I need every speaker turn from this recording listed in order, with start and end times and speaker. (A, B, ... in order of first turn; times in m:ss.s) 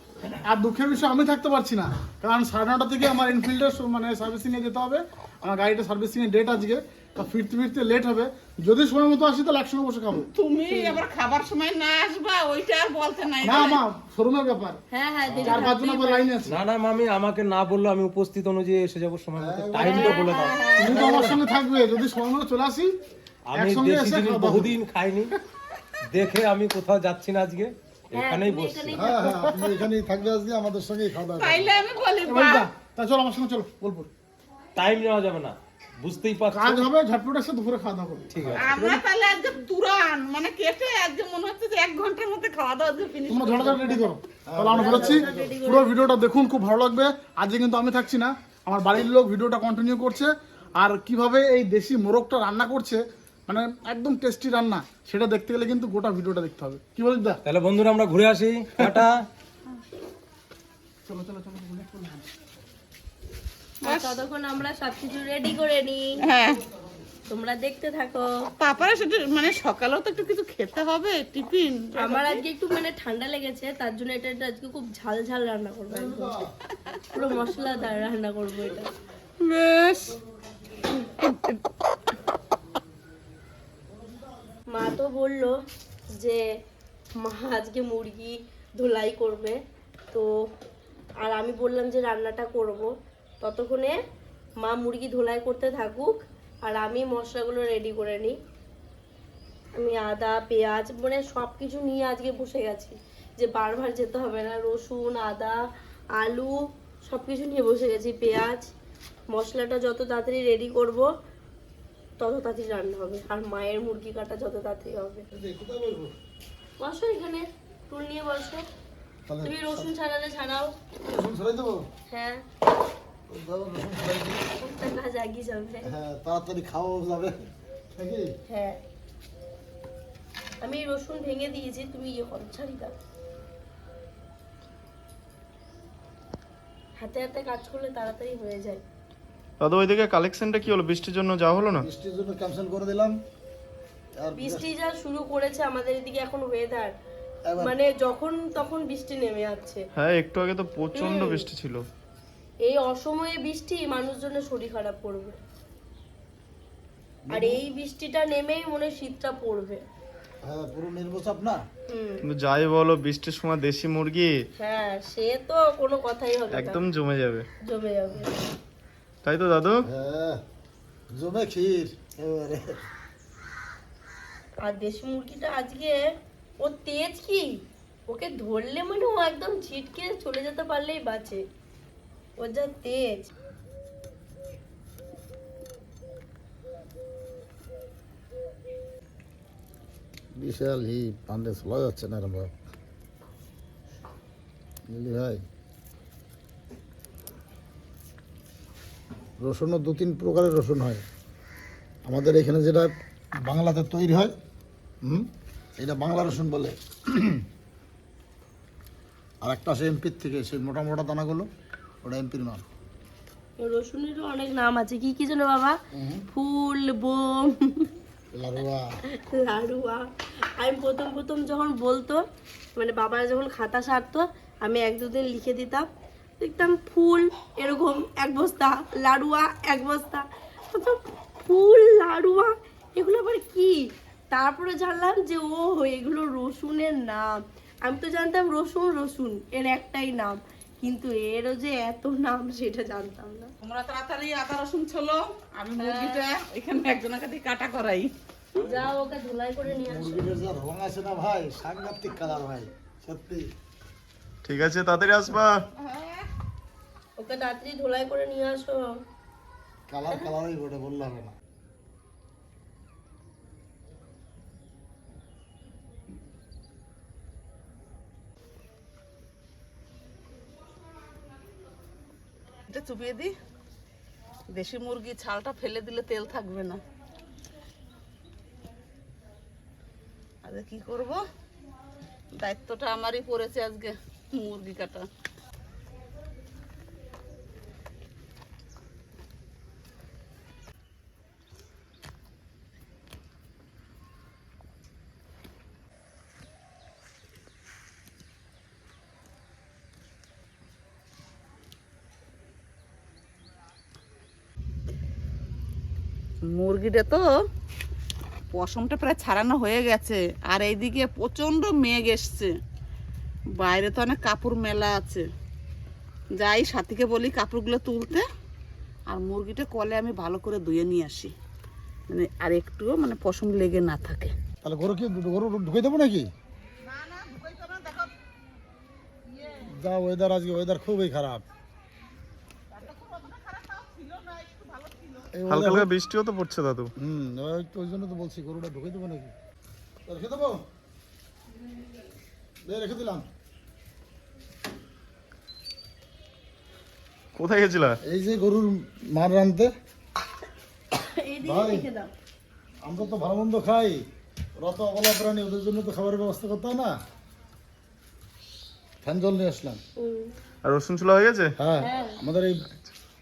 0:00.4-0:10.3 A
0:10.3-0:13.8 B
0:13.4-0:14.8 A
0:14.9-0:16.3 C
0:15.3-0:15.6 D
0:15.4-0:16.6 A
0:16.4-0:20.7 E
0:19.4-0:21.4 D
0:19.8-0:21.1 C
0:20.8-0:23.0 A
0:23.4-0:25.3 E
0:23.5-0:24.8 A
0:26.1-0:29.1 E
0:28.1-0:29.8 C
0:28.9-0:31.7 D
0:31.4-0:32.7 B
0:32.2-0:34.1 A
0:34.7-0:36.9 E
0:36.5-0:39.0 A
0:38.3-0:38.6 E
0:38.6-0:44.0 B
0:43.3-0:57.4 A
0:44.5-0:45.5 D
0:44.7-0:46.0 C
0:57.4-0:59.2 E
1:01.0-1:02.3 A
1:03.8-1:06.3 C
1:03.8-1:04.2 B
1:06.2-1:06.6 B
1:06.3-1:07.1 D
1:07.3-1:08.2 C
1:08.6-1:12.4 B
1:12.0-1:16.4 C
1:15.9-1:16.5 D
1:17.1-1:18.9 C
1:19.4-1:20.2 B
1:19.9-1:20.9 D
1:20.8-1:21.6 B
1:24.7-1:25.5 C
1:27.2-1:29.6 C
1:31.2-1:34.0 C
1:34.6-1:38.4 C
1:39.8-1:45.5 C
1:46.2-1:46.5 C
1:47.1-1:48.7 C
1:49.3-1:51.1 C
1:52.2-1:55.2 C
1:55.3-1:56.1 D
1:56.8-1:58.6 C
1:59.3-1:59.9 D
1:59.4-2:00.7 C
2:01.0-2:01.9 D
2:02.1-2:02.4 C
2:03.3-2:04.5 D
2:04.6-2:05.9 C
2:05.8-2:08.3 D
2:08.5-2:08.8 C
2:10.6-2:12.9 C
2:17.0-2:18.8 C
2:19.6-2:21.9 F
2:21.8-2:23.2 D
2:24.2-2:24.7 D
2:24.3-2:26.9 C
2:27.5-2:27.7 D
2:27.6-2:29.8 C
2:29.9-2:31.8 F
2:30.9-2:31.5 C
2:32.6-2:35.4 C
2:37.2-2:37.6 D
2:37.3-2:39.8 C
2:40.4-2:41.6 D
2:41.9-2:42.2 C
2:42.2-2:44.4 F
2:44.6-2:46.9 C
2:46.5-2:47.4 F
2:47.6-2:48.5 C
2:49.2-2:49.8 F
2:49.9-2:50.4 D
2:51.1-2:52.8 D
2:54.6-2:56.0 C
2:56.6-2:57.4 C
2:58.1-3:01.4 C
3:02.4-3:03.3 C
3:10.4-3:12.5 D
3:14.9-3:15.4 D
3:19.4-3:21.0 D
3:22.0-3:24.3 D
3:25.8-3:27.4 D
3:29.4-3:31.5 D
3:32.0-3:32.6 D
3:33.6-3:35.8 C
3:35.9-3:36.2 D
3:36.3-3:37.9 C
3:38.4-3:38.8 D
3:39.2-3:40.0 C
3:40.6-3:42.2 C
3:42.8-3:45.8 C
3:46.4-3:53.8 C
3:54.3-3:57.3 C
3:57.8-4:03.5 C
4:03.6-4:08.1 B
4:05.8-4:06.2 C
4:08.6-4:10.3 C
4:09.6-4:13.5 D
4:14.4-4:15.6 F
4:15.8-4:16.2 B
4:17.2-4:18.8 C
4:19.9-4:21.3 D
4:32.7-4:33.3 B
4:34.5-4:36.8 B
4:40.4-4:41.2 B
4:42.4-4:45.1 B
5:06.5-5:07.2 B
5:08.5-5:12.5 B
5:13.6-5:15.3 B
5:16.4-5:18.2 B
5:19.1-5:21.3 B
5:22.1-5:24.3 B
5:24.6-5:26.3 D
5:26.8-5:28.1 B
5:29.4-5:29.6 B
5:29.6-5:31.4 D
5:32.7-5:35.3 B
5:35.3-5:35.9 D
5:35.5-5:36.9 F
5:37.0-5:39.3 D
5:40.0-5:40.6 D
5:42.6-5:43.3 D
5:47.4-5:48.0 F
5:48.0-5:49.7 D
5:51.0-5:52.1 C
5:51.4-5:51.9 D
5:52.8-5:54.0 D
5:54.6-5:56.9 D
5:59.0-5:59.8 D
6:00.0-6:00.3 C
6:00.6-6:01.5 F
6:01.6-6:02.6 D
6:01.8-6:02.2 C